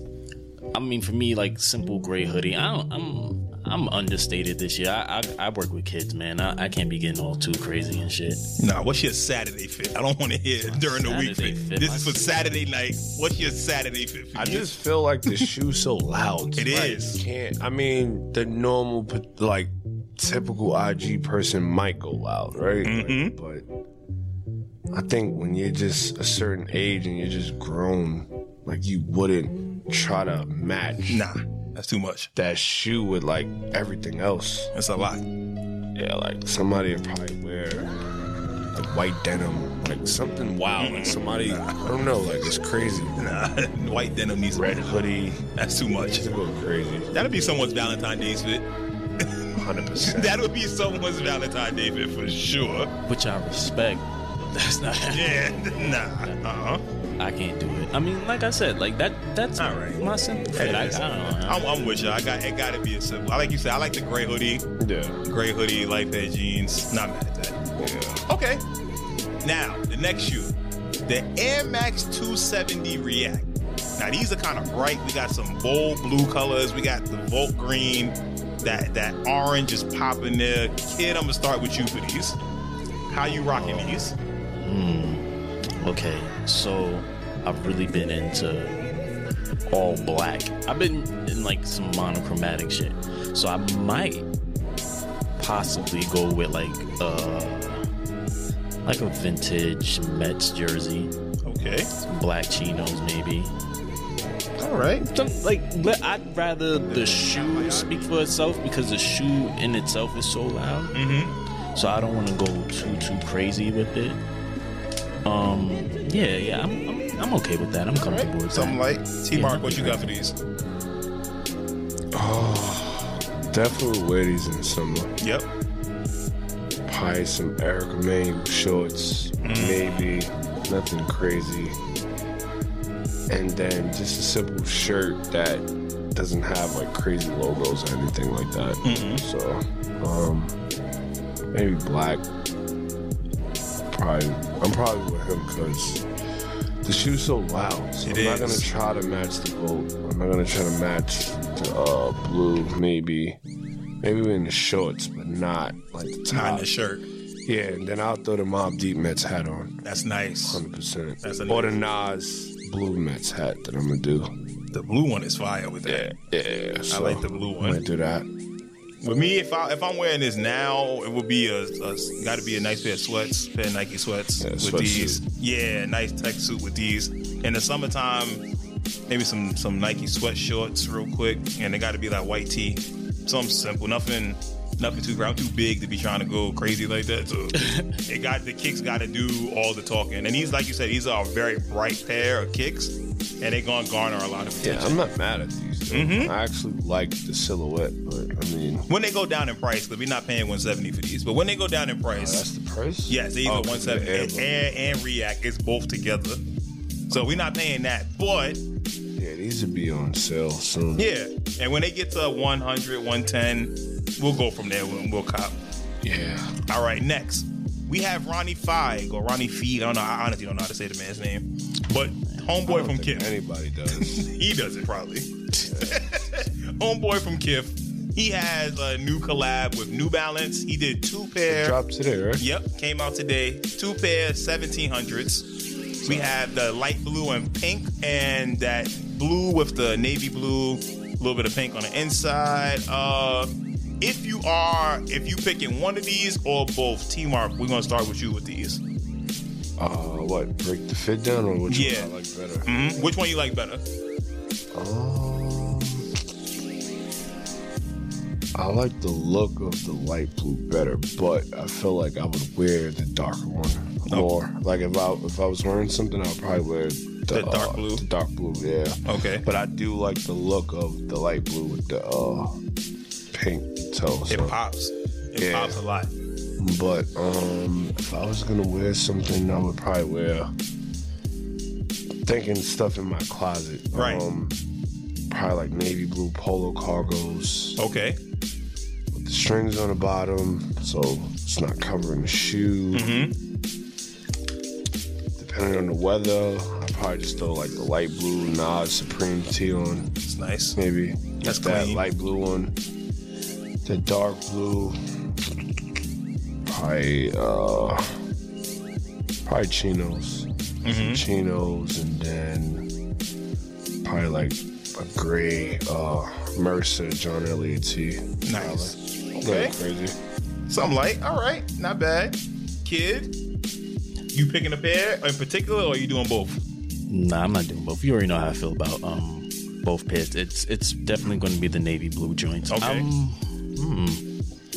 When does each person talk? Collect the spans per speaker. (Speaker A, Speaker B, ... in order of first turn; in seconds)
Speaker A: 0.7-8.4, 10.6-12.2, 53.0-56.4, 57.2-61.6, 83.6-88.8, 89.7-94.3, 95.4-97.9, 98.8-101.1, 102.0-103.5, 105.0-110.9, 111.7-114.2, 115.2-118.8, 119.3-120.1, 187.5-188.0, 327.1-334.2
Speaker B: 8.6-14.7, 16.5-17.2, 22.8-23.3, 31.1-32.3, 34.7-35.2, 40.8-41.8, 43.2-44.9, 45.5-46.2, 47.1-48.7, 49.2-52.9, 55.1-56.8, 59.6-60.0, 60.5-64.7, 65.2-67.6, 68.3-68.6, 69.4-70.5, 71.0-82.4, 83.1-84.1, 101.4-101.9, 104.6-105.1, 106.8-108.1, 110.9-111.3, 117.9-120.3, 125.2-125.5, 129.4-130.2, 138.8-139.2, 148.0-148.7, 156.3-157.0, 159.8-160.6, 161.2-161.8, 164.7-166.1, 166.9-167.8, 169.0-178.4, 179.1-195.0, 195.9-196.3, 198.9-202.4, 203.1-206.4, 207.1-208.6, 210.9-215.6, 216.7-223.3, 223.9-231.8, 232.4-235.4, 236.0-243.5, 244.0-248.8, 251.7-252.1, 252.7-253.8, 267.3-268.0, 269.1-269.4, 274.3-276.1, 283.9-284.2, 287.8-288.2, 292.9-293.4, 300.2-300.8, 301.4-302.0, 310.8-311.2, 318.4-319.7, 320.7-323.3, 324.3-326.6, 332.7-333.1
Speaker C: 14.3-23.6, 24.9-31.3, 32.4-34.7, 36.0-37.9, 38.7-43.4, 44.5-47.1, 49.5-50.5, 64.8-65.2, 67.8-68.2, 122.1-125.1, 126.8-131.8, 133.3-140.6, 141.5-142.2, 143.9-146.0, 146.8-153.4, 154.0-156.7, 157.4-159.8, 160.4-164.3, 165.8-168.3, 174.4-175.2, 194.6-198.9, 202.1-205.0, 207.1-207.5, 209.2-211.1, 216.0-216.6, 222.6-224.3, 225.5-226.1, 231.5-232.4, 236.0-236.3, 249.8-252.7, 254.7-256.2, 258.5-272.6, 273.3-274.6, 275.4-275.8, 276.6-280.5, 282.2-284.6, 285.3-287.8, 289.1-293.1, 295.4-300.1, 300.8-302.8, 303.8-305.0, 306.6-308.2, 309.4-312.9, 314.0-320.2